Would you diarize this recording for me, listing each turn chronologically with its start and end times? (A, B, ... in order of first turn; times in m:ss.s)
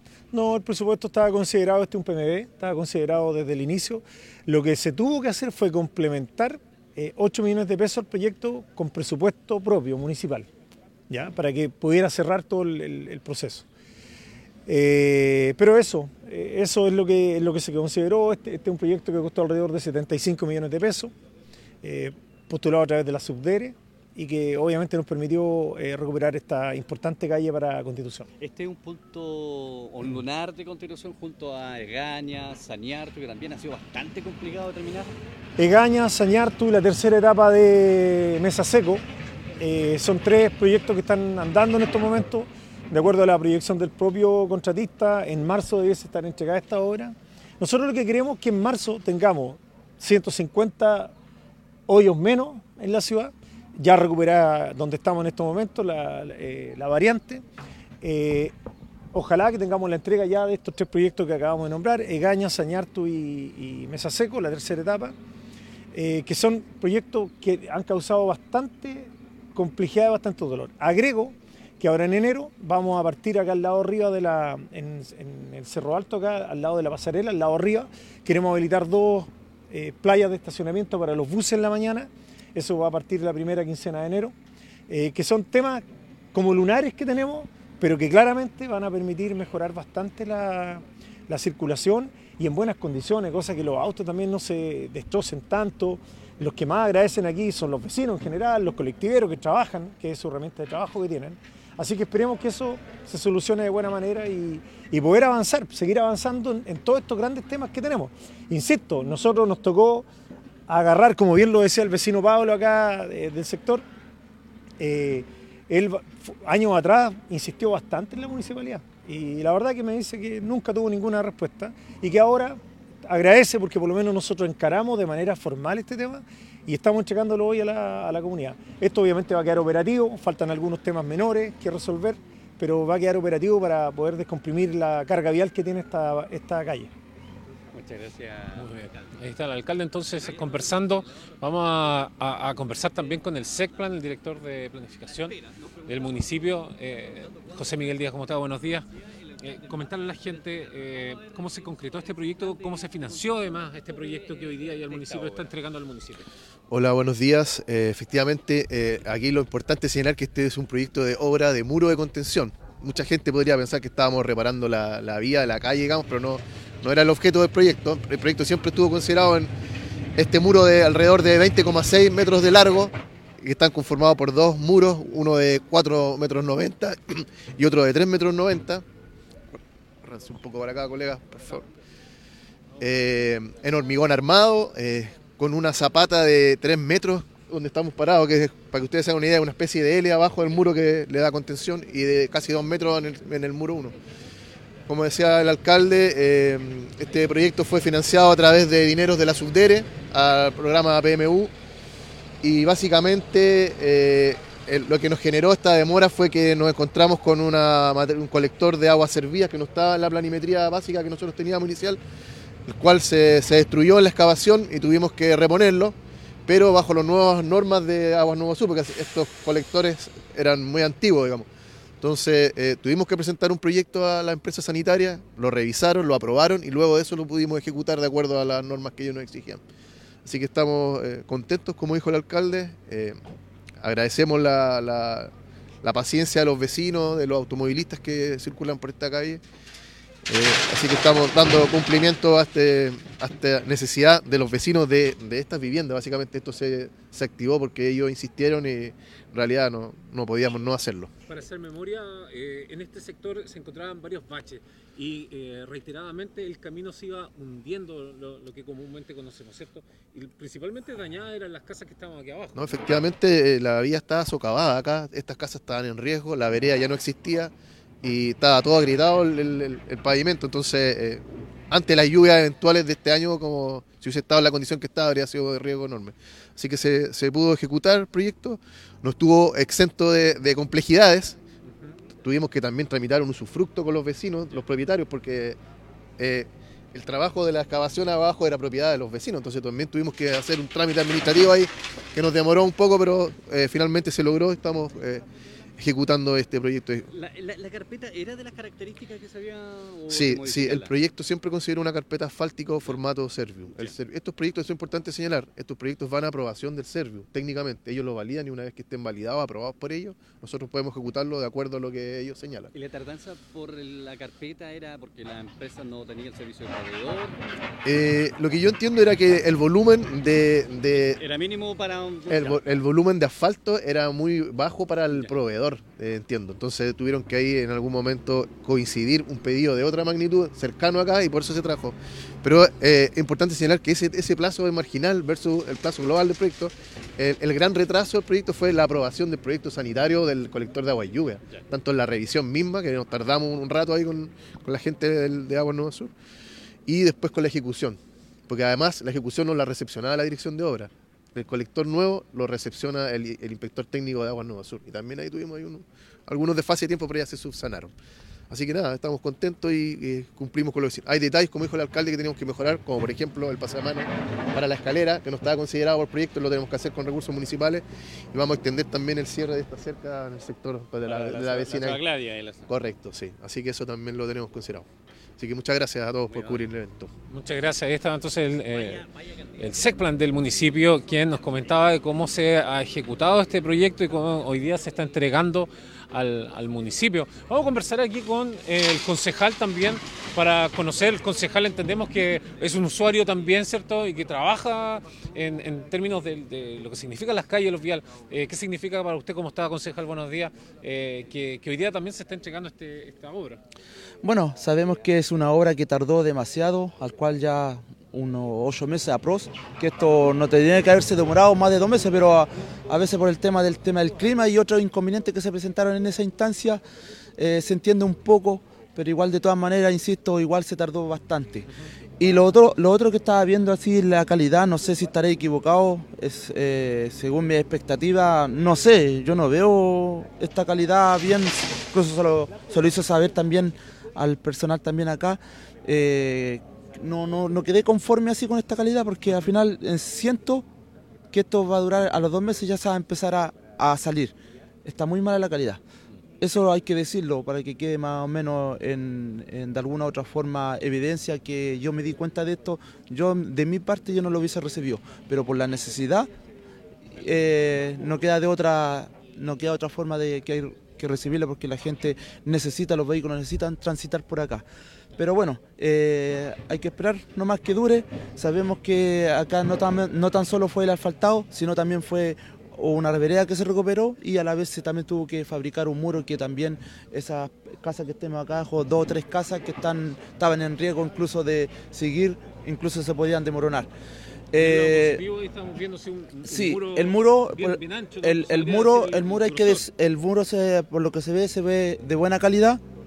0:00.3-0:10.5 A
0:11.1-0:13.6 A
0:14.7-0:21.1 A
0:21.8-0:28.3 A
0:28.4-0:35.1 B
0:35.6-0:39.0 A
0:39.6-0:51.1 A
0:51.9-0:57.4 A
0:58.0-0:58.5 A
0:59.1-1:05.2 A
1:05.9-1:24.3 A
1:24.9-1:50.1 A
1:50.7-1:53.8 A
1:54.8-2:16.9 A
2:17.7-2:18.9 B
2:18.5-2:25.3 C
2:25.9-2:28.9 C
2:29.4-2:36.3 C
2:34.9-2:35.5 B
2:36.7-2:49.5 D
2:50.2-2:58.8 D
3:00.0-3:01.7 D
3:02.8-3:13.9 D
3:14.9-3:21.5 D
3:22.4-3:32.0 D
3:32.7-3:36.0 D
3:36.5-3:41.5 D
3:42.0-3:49.6 D
3:50.2-3:53.2 D
3:53.8-3:59.4 D
4:00.3-4:11.1 D
4:11.3-4:22.8 C
4:22.5-4:41.4 D
4:41.7-4:41.9 C
4:42.2-4:45.6 D
4:46.2-4:55.2 D
4:55.8-4:57.1 D
4:57.1-5:00.9 B
5:00.1-5:12.7 D
5:12.7-5:17.4 B
5:17.8-5:21.2 D
5:20.9-5:22.6 B
5:22.3-5:46.1 D
5:25.1-5:25.3 B
5:46.8-5:57.9 D
5:58.5-6:12.0 D
6:11.0-6:12.7 B
6:12.7-6:17.1 D
6:16.2-6:16.7 B
6:17.3-6:19.0 C
6:18.7-6:19.2 B
6:19.6-6:43.6 C
6:44.2-6:56.8 E
6:57.4-7:01.7 E
7:02.2-7:20.6 E
7:21.3-7:25.8 E
7:26.4-7:36.3 E
7:37.1-7:44.6 E
7:45.2-8:03.9 E
8:04.5-8:05.2 E
8:04.6-8:09.9 C
8:06.4-8:12.8 E